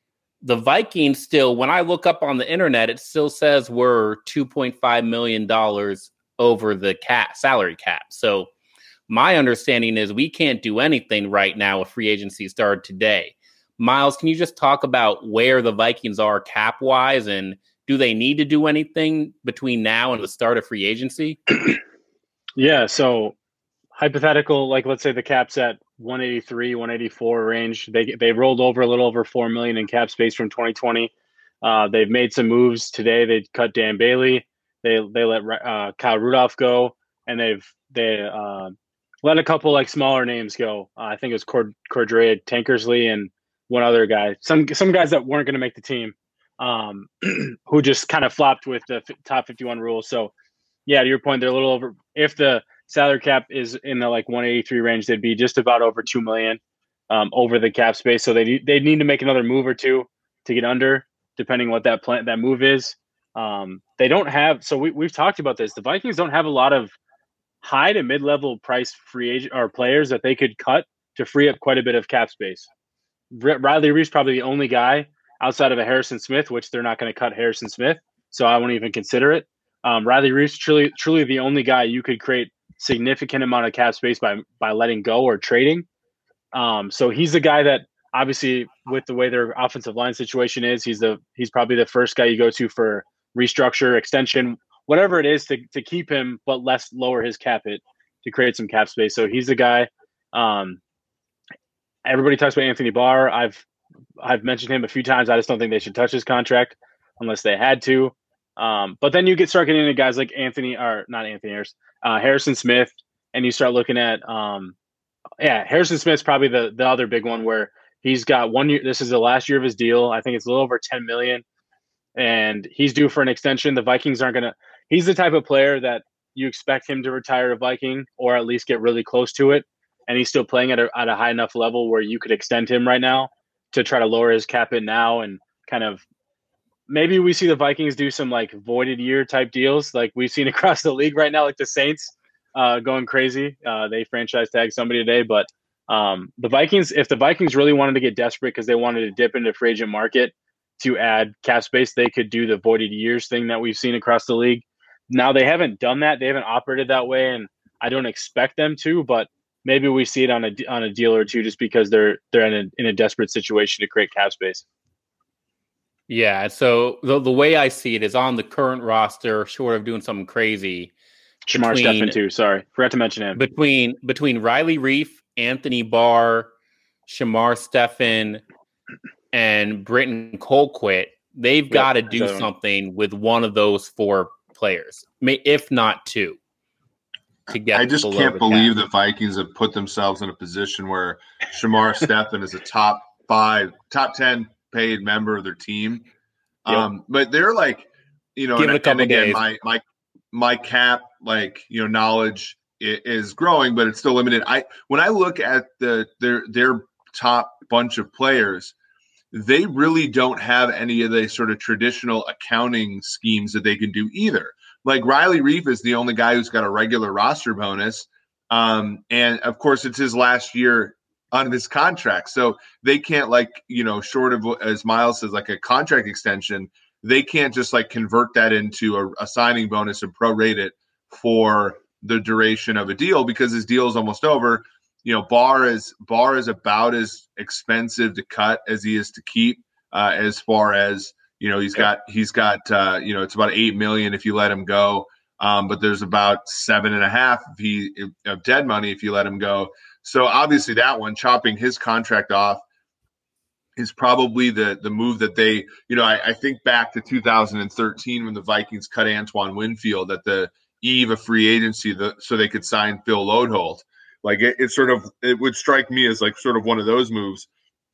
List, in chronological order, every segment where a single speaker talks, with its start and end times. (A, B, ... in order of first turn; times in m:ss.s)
0:00.4-0:08.5 A
0:09.1-0:21.4 A
0:22.6-0:23.4 B
0:24.0-0:31.1 B
0:31.6-0:50.3 B
0:50.9-0:56.6 B
0:57.1-1:07.0 B
1:07.6-1:12.7 B
1:13.3-1:25.9 B
1:26.5-1:40.8 B
1:42.0-1:43.6 B
1:44.2-1:54.7 B
1:55.4-2:01.4 B
2:02.2-2:16.0 B
2:16.9-2:44.6 B
2:46.1-2:50.9 A
2:51.5-2:53.4 B
2:51.5-2:52.2 A
2:53.4-2:56.5 A
2:57.1-2:58.4 A
2:59.3-3:06.4 A
3:01.7-3:02.5 B
3:07.5-3:08.7 A
3:07.7-3:16.1 C
3:16.6-3:28.7 C
3:18.6-3:19.4 A
3:29.3-4:12.6 C
4:13.8-4:27.5 C